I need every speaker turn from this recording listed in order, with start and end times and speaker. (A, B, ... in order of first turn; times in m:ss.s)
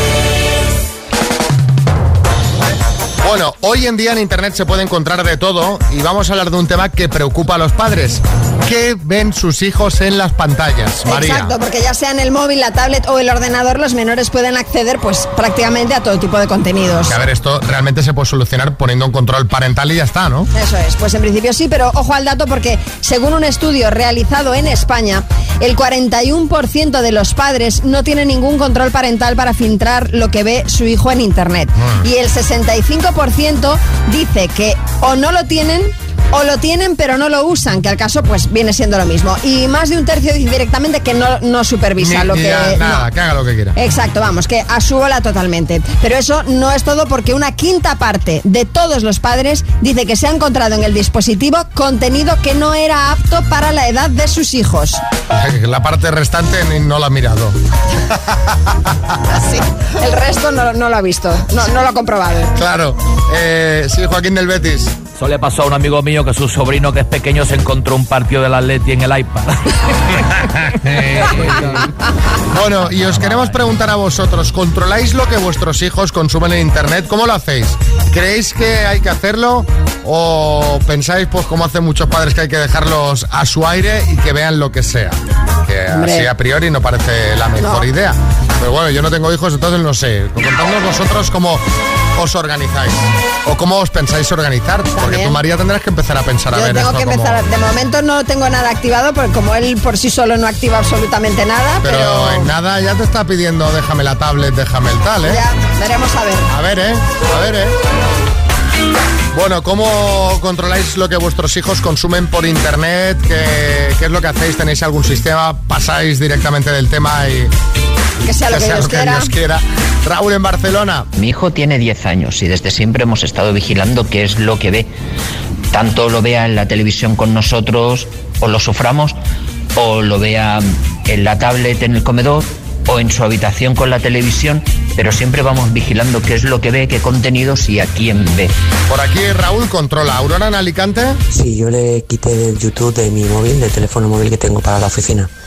0:03.2-0:11.5 A
0:11.1-0:17.2 B
0:17.1-0:20.5 A
0:20.5-0:43.1 B
0:31.8-0:32.0 A
0:42.0-0:43.8 A
0:43.8-0:55.0 B
0:55.3-0:57.6 A
0:59.3-1:02.5 B
1:02.6-1:04.9 A
1:05.2-1:10.2 C
1:11.2-1:11.7 C
1:12.5-1:31.6 A
1:25.9-1:26.3 B
1:27.6-1:27.9 B
1:32.2-1:37.4 A
1:35.0-1:35.4 B
1:36.5-1:42.5 B
1:41.8-1:45.4 A
1:45.3-1:46.5 B
1:46.5-1:47.8 A
1:49.3-1:57.5 A
1:58.2-1:59.3 B
1:58.5-2:01.1 A
2:01.2-2:04.9 D
2:05.7-2:09.2 D
2:09.8-2:18.5 D
2:18.9-2:21.2 A
2:21.3-2:25.3 E